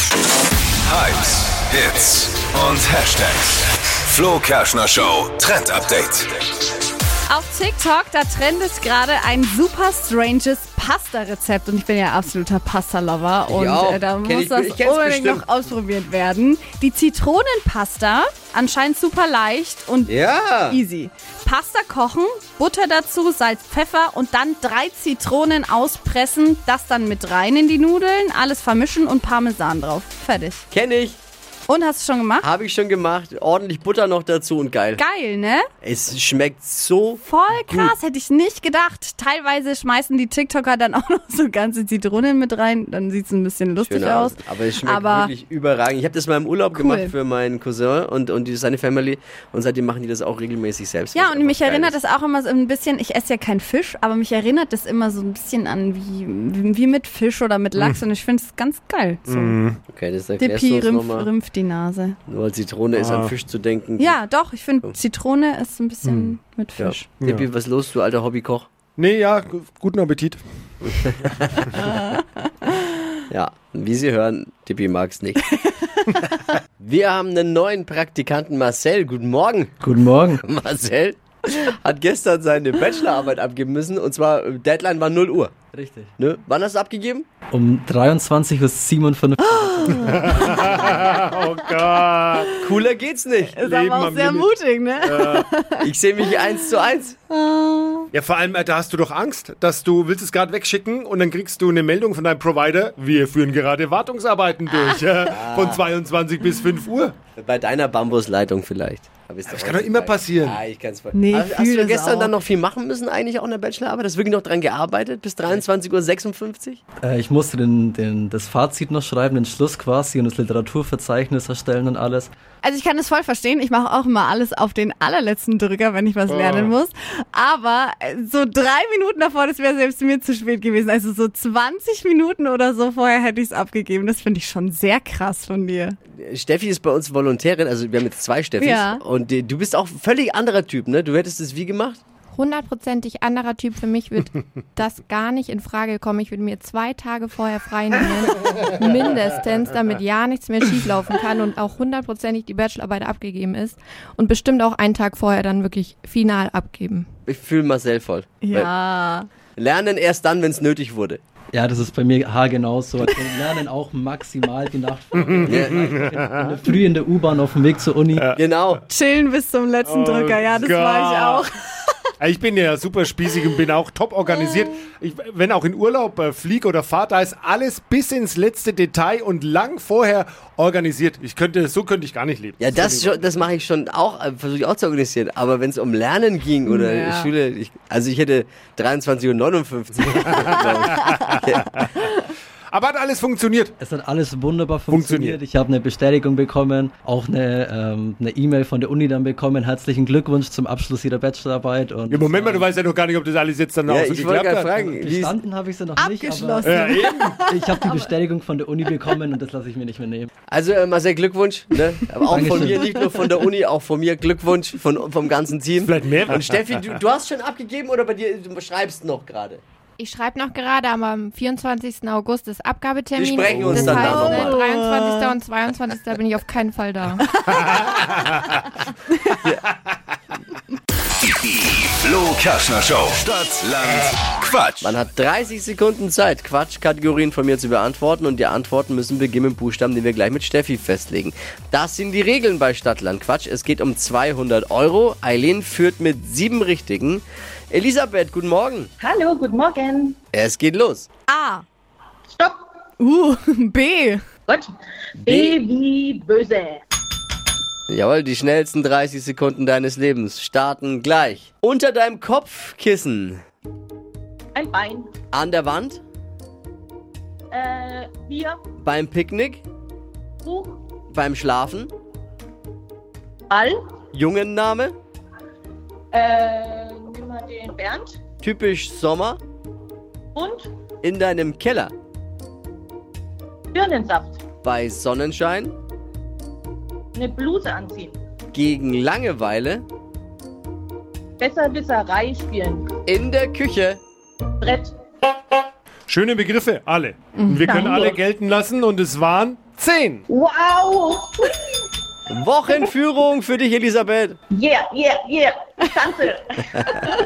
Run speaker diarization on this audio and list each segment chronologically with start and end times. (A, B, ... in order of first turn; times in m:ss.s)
0:00.8-0:06.4 A
0:07.3-0:20.1 B
0:13.5-0:15.5 C
0:20.1-0:20.8 C
0:20.7-0:30.7 B
0:30.7-0:31.2 C
0:31.7-0:32.5 B
0:32.4-0:35.0 C
0:35.0-0:35.7 B
0:35.8-0:38.0 C
0:37.2-0:45.3 B
0:43.9-0:52.0 C
0:46.7-0:47.1 B
0:51.2-0:59.6 B
0:57.8-0:58.0 D
0:59.3-0:59.8 D
0:59.9-1:01.3 C
1:00.4-1:02.2 B
1:02.3-1:04.2 C
1:02.9-1:03.3 D
1:04.0-1:07.1 B
1:06.0-1:06.3 D
1:06.8-1:08.7 C
1:07.2-1:07.5 D
1:09.0-1:11.1 D
1:11.8-1:12.2 B
1:13.3-1:15.4 C
1:16.8-1:19.7 C
1:19.8-1:20.4 E
1:20.4-1:25.5 C
1:25.7-1:26.1 E
1:26.2-1:27.3 C
1:27.5-1:30.6 E
1:29.5-1:31.1 B
1:30.1-1:32.5 D
1:32.3-1:32.6 B
1:32.6-1:33.6 C
1:33.5-1:36.8 B
1:33.5-1:35.5 D
1:35.8-1:37.2 C
1:37.3-1:38.1 B
1:38.1-1:47.2 D
1:45.3-1:45.8 C
1:47.4-1:56.8 C
1:49.5-1:50.6 D
1:51.1-1:52.3 B
1:57.0-2:02.3 E
2:02.6-2:16.0 B
2:06.3-2:06.7 D
2:16.2-2:22.0 C
2:18.6-2:19.0 B
2:22.3-2:37.1 F
2:37.3-2:38.7 C
2:38.4-2:39.3 B
2:39.6-2:41.2 C
2:41.5-2:48.3 E
2:45.1-2:46.5 D
2:45.5-2:45.9 C
2:48.2-2:48.4 D
2:48.4-2:48.8 C
2:48.9-2:52.0 B
2:49.9-2:51.4 D
2:52.2-3:03.5 D
3:02.6-3:11.8 C
3:06.6-3:07.3 B
3:11.3-3:11.8 D
3:12.7-3:13.7 D
3:13.8-3:22.7 E
3:14.9-3:15.4 D
3:22.1-3:24.9 D
3:23.9-3:25.4 C
3:24.9-3:30.3 E
3:26.0-3:28.1 B
3:26.6-3:27.5 D
3:30.5-3:39.6 C
3:32.2-3:33.0 E
3:35.8-3:36.6 D
3:40.0-3:47.5 F
3:43.2-3:44.6 C
3:43.9-3:45.4 B
3:47.5-3:48.0 B
3:47.7-3:48.3 D
3:51.3-3:54.9 A
3:54.8-4:08.9 C
4:09.0-4:10.2 G
4:10.3-4:11.1 C
4:11.3-4:11.6 B
4:12.3-4:12.6 G
4:13.0-4:14.2 B
4:14.5-4:16.8 G
4:15.2-4:15.6 C
4:17.9-4:23.4 C
4:24.6-4:25.1 G
4:25.3-4:26.0 C
4:27.5-4:28.6 G
4:28.8-4:29.6 C
4:30.4-4:30.8 G
4:31.1-4:31.9 C
4:33.5-4:33.8 G
4:34.1-4:35.0 C
4:36.1-4:38.2 G
4:38.4-4:39.4 C
4:40.4-4:40.7 G
4:41.0-4:41.9 C
4:43.7-4:44.4 G
4:44.6-4:45.8 C
4:47.2-4:48.2 G
4:48.5-4:49.8 C
4:51.4-4:53.0 G
4:53.1-4:54.0 C
4:54.6-4:55.0 G
4:56.1-5:00.2 D
4:57.4-4:58.1 B
4:57.7-4:58.2 G
5:00.3-5:01.5 G
5:02.3-5:04.4 C
5:04.5-5:06.9 G